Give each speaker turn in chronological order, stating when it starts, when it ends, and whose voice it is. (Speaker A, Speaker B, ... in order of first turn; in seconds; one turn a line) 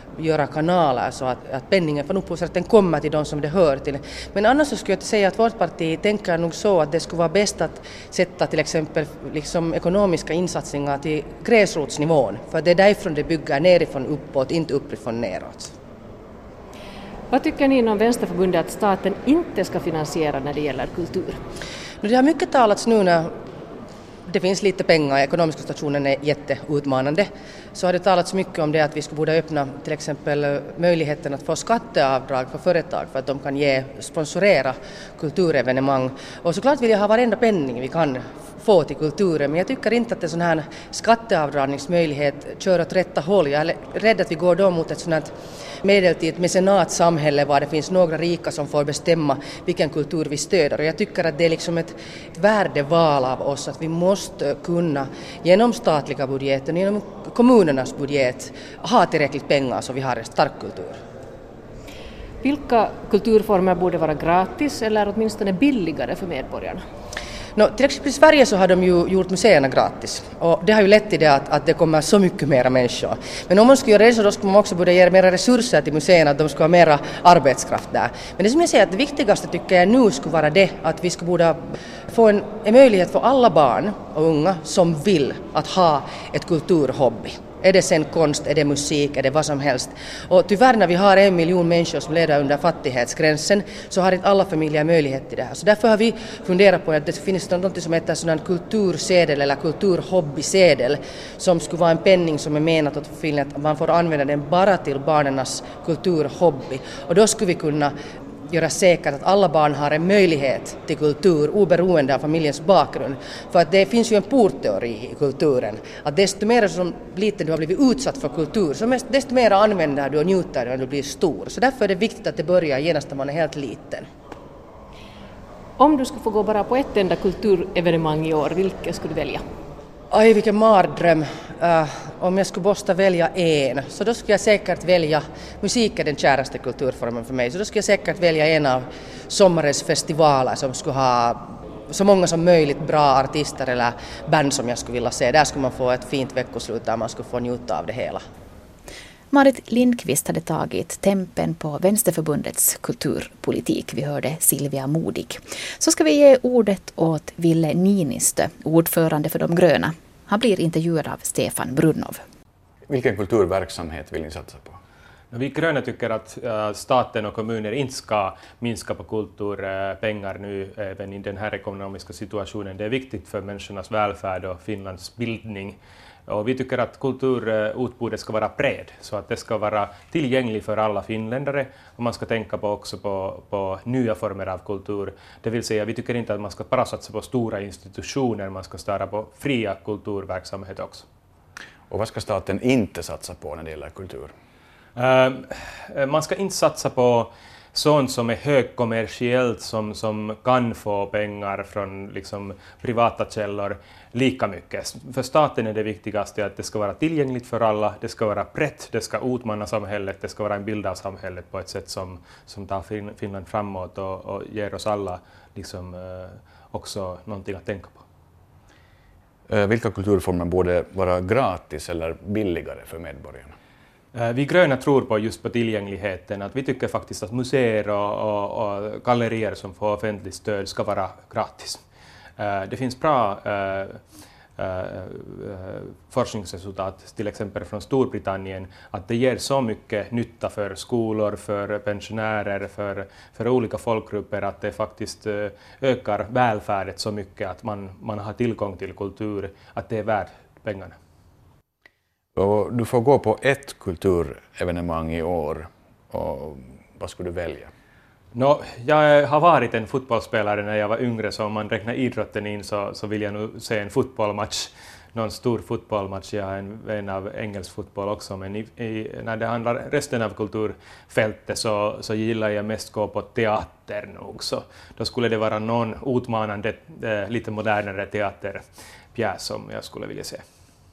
Speaker A: 0.2-15.7
Speaker B: 17.3-21.4
Speaker A: 22.0-23.3
Speaker A: 24.3-45.3
Speaker A: 45.8-61.0
Speaker B: 62.4-66.8
Speaker A: 67.6-107.9
Speaker A: 108.5-124.1
Speaker B: 125.8-129.4
Speaker A: 130.1-148.2
Speaker C: 149.3-162.2
Speaker D: 162.9-164.8
Speaker E: 165.3-191.1
Speaker D: 191.9-194.3
Speaker E: 195.0-218.0
Speaker D: 219.5-223.5
Speaker E: 224.1-231.8
Speaker E: 232.4-234.0
Speaker E: 234.6-251.0
Speaker D: 252.4-257.7
Speaker E: 258.3-278.6
Speaker E: 279.1-280.4